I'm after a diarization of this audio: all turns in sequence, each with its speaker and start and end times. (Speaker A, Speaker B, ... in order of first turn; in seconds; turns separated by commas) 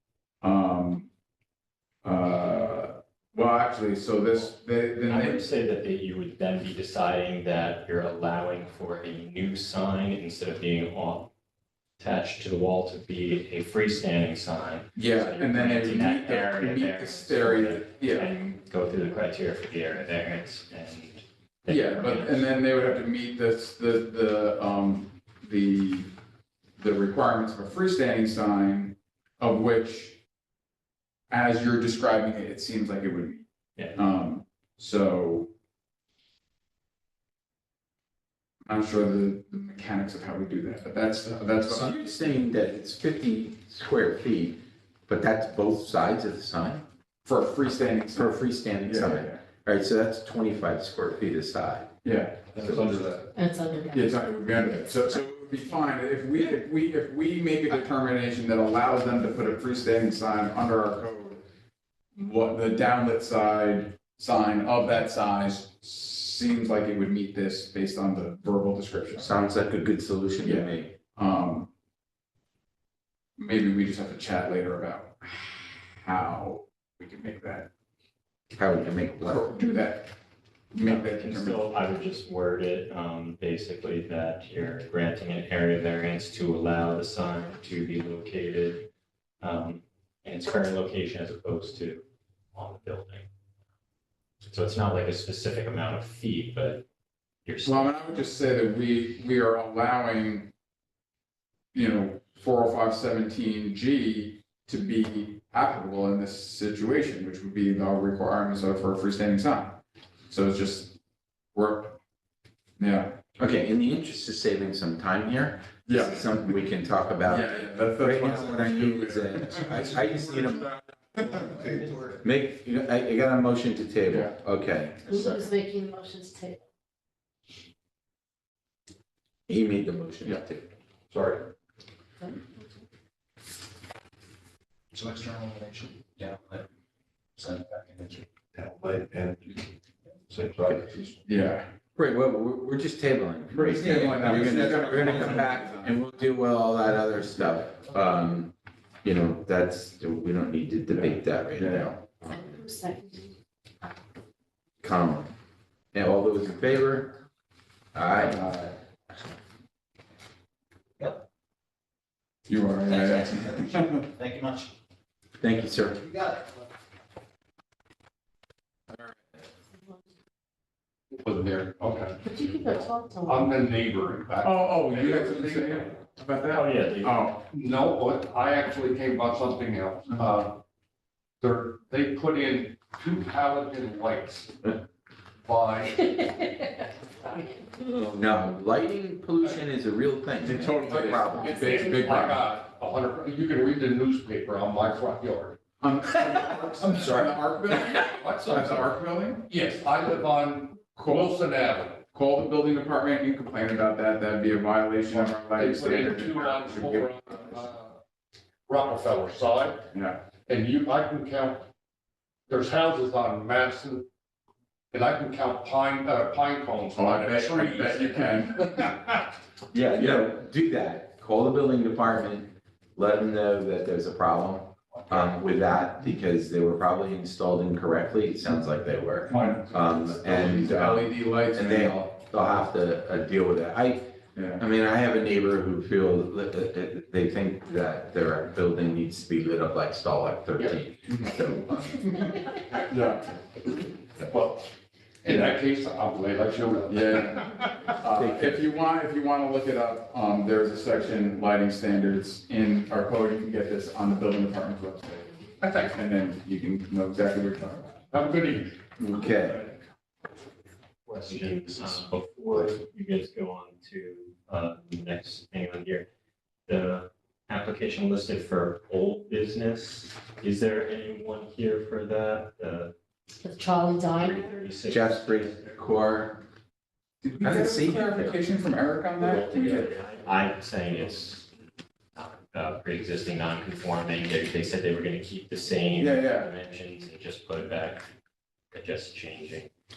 Speaker A: 0.4-1.1, Speaker A: 2.0-5.4, Speaker B: 5.1-11.3, Speaker B: 12.0-22.4, Speaker A: 14.9-18.5, Speaker A: 21.7-26.1, Speaker A: 26.8-30.2, Speaker A: 31.3-35.5, Speaker A: 38.7-42.0, Speaker C: 41.7-46.8, Speaker A: 47.2-49.4, Speaker C: 48.2-51.9, Speaker A: 52.0-53.3, Speaker D: 53.3-54.2, Speaker A: 53.9-61.4, Speaker A: 62.1-69.3, Speaker C: 69.2-70.9, Speaker A: 70.4-71.7, Speaker A: 73.4-77.7, Speaker C: 78.5-79.6, Speaker A: 79.2-80.1, Speaker A: 80.7-81.7, Speaker B: 80.8-88.9, Speaker B: 89.4-93.3, Speaker B: 94.5-96.8, Speaker B: 97.5-98.2, Speaker A: 97.6-100.5, Speaker A: 101.7-111.0, Speaker A: 111.5-112.0, Speaker A: 112.8-113.2, Speaker C: 113.4-120.7, Speaker A: 115.9-116.3, Speaker A: 117.2-120.1, Speaker E: 121.1-122.2, Speaker C: 122.2-125.4, Speaker A: 124.1-124.3, Speaker D: 125.1-126.6, Speaker C: 129.5-130.7, Speaker E: 131.1-131.4, Speaker E: 134.9-136.7, Speaker E: 137.4-139.7, Speaker E: 140.3-141.2, Speaker A: 141.2-141.7, Speaker C: 142.0-152.4, Speaker A: 143.5-146.0, Speaker E: 144.1-145.4, Speaker A: 150.9-152.0, Speaker D: 152.3-153.3, Speaker C: 154.8-155.3, Speaker C: 155.9-157.2, Speaker C: 157.9-158.5, Speaker A: 158.2-158.8, Speaker A: 162.5-164.1, Speaker E: 162.9-164.7, Speaker C: 165.4-166.0, Speaker E: 165.8-166.5, Speaker F: 171.1-172.2, Speaker D: 172.2-173.5, Speaker F: 173.2-175.9, Speaker A: 174.4-177.4, Speaker B: 176.4-177.2, Speaker F: 177.5-180.6, Speaker F: 181.4-184.8, Speaker F: 185.4-186.5, Speaker C: 187.8-191.6, Speaker A: 190.4-192.4, Speaker F: 190.8-195.6, Speaker A: 195.8-199.5, Speaker C: 196.8-198.0, Speaker F: 198.0-198.9, Speaker F: 199.5-202.0, Speaker A: 201.0-201.3, Speaker A: 202.1-207.3, Speaker F: 205.1-208.0, Speaker F: 208.7-209.9, Speaker A: 209.9-210.2, Speaker F: 210.4-211.7, Speaker F: 212.5-214.1, Speaker F: 214.9-218.8, Speaker A: 216.9-219.0, Speaker C: 219.7-242.4, Speaker A: 219.8-220.3, Speaker A: 229.3-232.1, Speaker F: 229.3-229.6, Speaker A: 234.3-234.6, Speaker A: 241.1-241.4, Speaker A: 242.9-243.3, Speaker F: 244.2-244.7, Speaker F: 245.2-247.7, Speaker A: 246.9-258.0, Speaker C: 248.1-248.6, Speaker F: 255.6-256.0, Speaker F: 258.1-258.8, Speaker C: 259.0-259.6, Speaker B: 261.1-266.1, Speaker B: 266.7-272.9, Speaker D: 273.4-274.6, Speaker B: 274.0-275.9, Speaker C: 274.9-276.4, Speaker A: 277.2-279.9, Speaker C: 277.4-278.4, Speaker B: 279.2-281.5, Speaker B: 282.1-288.1, Speaker A: 286.0-286.5, Speaker B: 288.7-289.7